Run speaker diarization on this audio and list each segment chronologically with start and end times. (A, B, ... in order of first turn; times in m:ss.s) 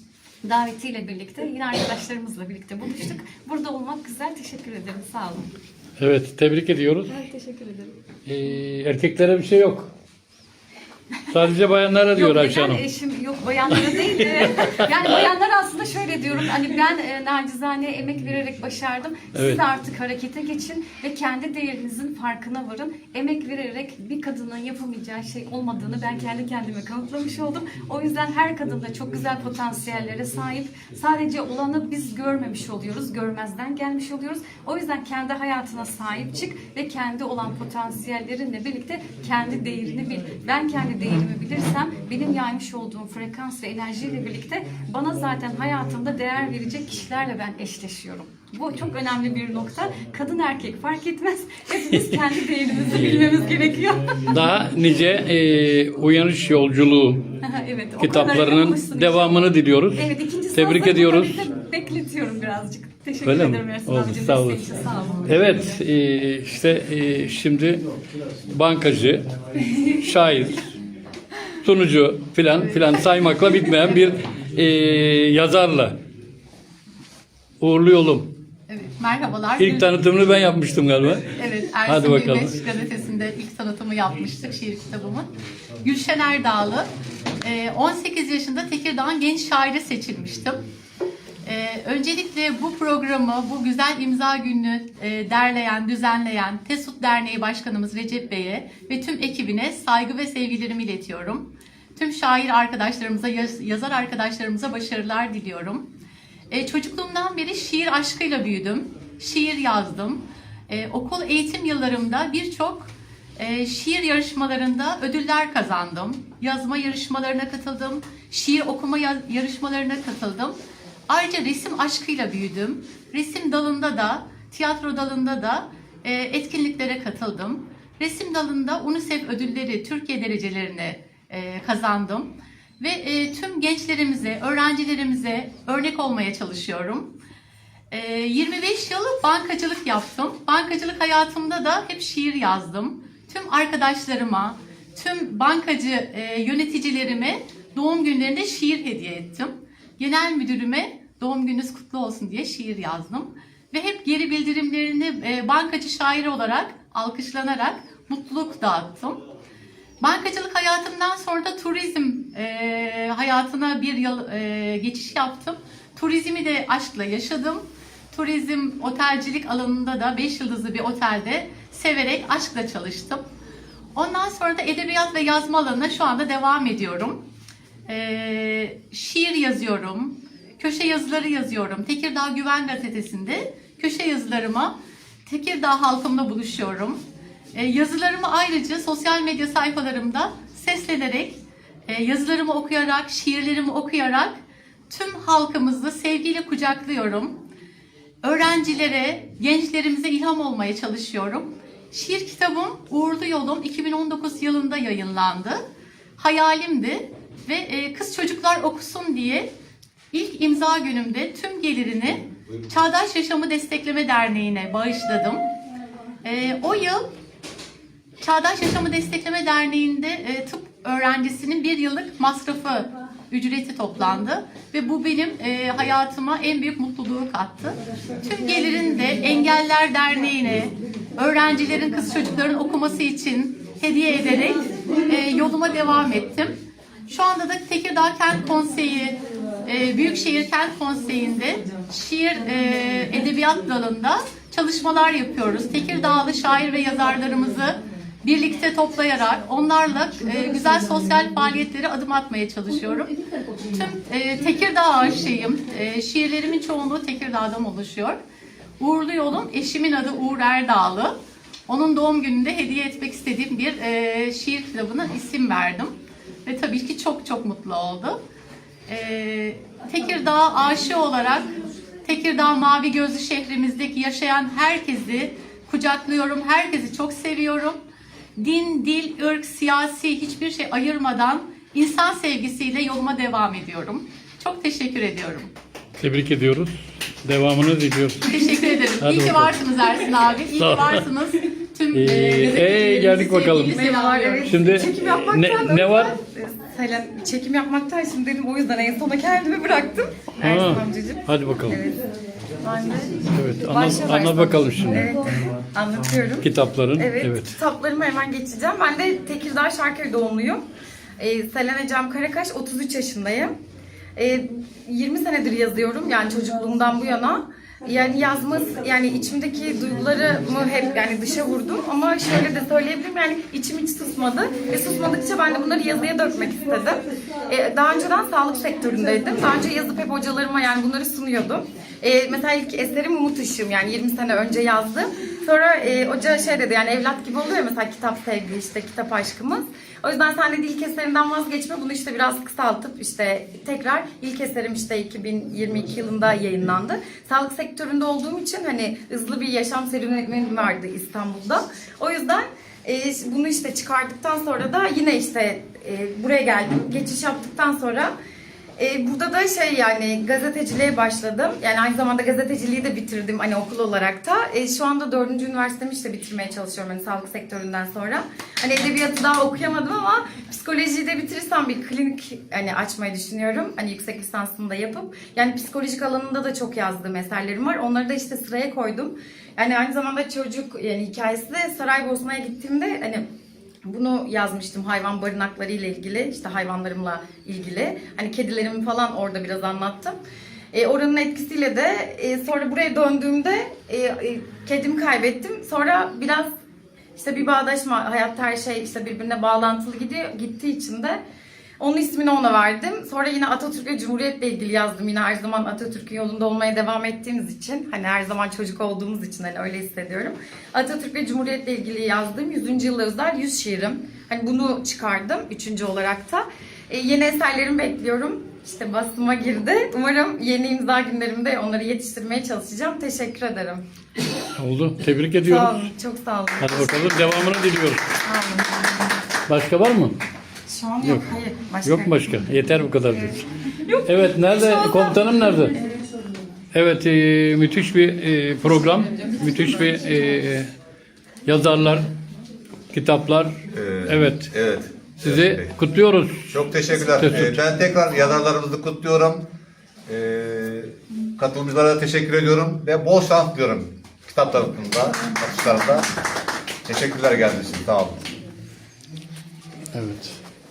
0:00.4-0:05.5 A
0:06.0-0:07.1 B
0:07.1-0:07.9 A
0:08.2-0:09.9 B
0:11.3-0:12.8 B
0:12.1-0:54.4 A
0:19.3-0:19.6 B
0:52.9-0:53.3 B
0:54.3-0:57.2 B
0:57.4-1:05.8 A
0:58.0-1:01.4 B
1:03.2-1:04.6 B
1:05.2-1:07.8 B
1:08.5-1:09.3 B
1:10.0-1:10.7 B
1:11.6-1:16.0 B
1:12.6-1:12.9 C
1:17.6-1:18.3 B
1:18.7-1:19.9 C
1:19.6-1:22.6 B
1:21.3-1:25.3 C
1:25.8-1:26.9 C
1:27.4-1:30.6 C
1:31.4-1:45.8 C
1:46.5-2:00.5 C
2:01.1-2:17.1 C
2:17.9-2:39.2 C
2:40.0-2:53.2 C
2:53.9-2:57.2 C
2:57.9-3:04.7 C
3:05.2-3:07.0 C
3:07.5-3:14.4 C
3:14.9-3:17.3 C
3:18.2-3:25.6 C
3:26.2-3:29.5 C
3:30.1-3:35.4 C
3:36.2-3:37.0 C
3:38.2-4:18.2 C
4:18.8-4:21.1 C
4:21.7-4:25.9 C
4:26.4-4:28.2 C
4:28.9-4:37.8 C
4:38.4-4:45.5 C
4:46.0-4:49.6 B
4:48.2-4:54.5 C
4:50.6-4:51.0 B
4:51.9-4:53.8 B
4:52.6-4:53.0 D
4:53.7-5:02.0 D
4:54.4-4:56.1 B
5:00.4-5:01.8 B
5:02.6-5:10.6 D
5:03.3-5:05.1 B
5:06.4-5:07.6 B
5:11.2-5:13.5 D
5:14.2-5:58.1 D
5:58.8-6:23.2 D
6:23.8-6:30.1 D
6:30.7-6:36.5 D
6:37.2-6:41.2 D
6:41.8-7:03.8 D
7:04.6-7:05.8 B
7:05.4-7:07.5 D
7:06.6-7:08.0 B
7:08.2-7:09.1 D
7:09.5-7:10.2 B
7:10.7-7:12.4 D
7:11.0-7:11.3 B
7:11.8-7:13.4 B
7:13.9-7:16.0 D
7:14.0-7:15.8 B
7:16.7-7:20.7 B
7:21.4-7:22.1 B
7:22.9-7:24.5 B
7:23.7-7:25.7 E
7:25.2-7:26.5 B
7:26.5-7:29.4 E
7:27.1-7:27.6 B
7:30.1-7:36.1 E
7:36.9-7:38.2 E
7:39.9-7:40.4 B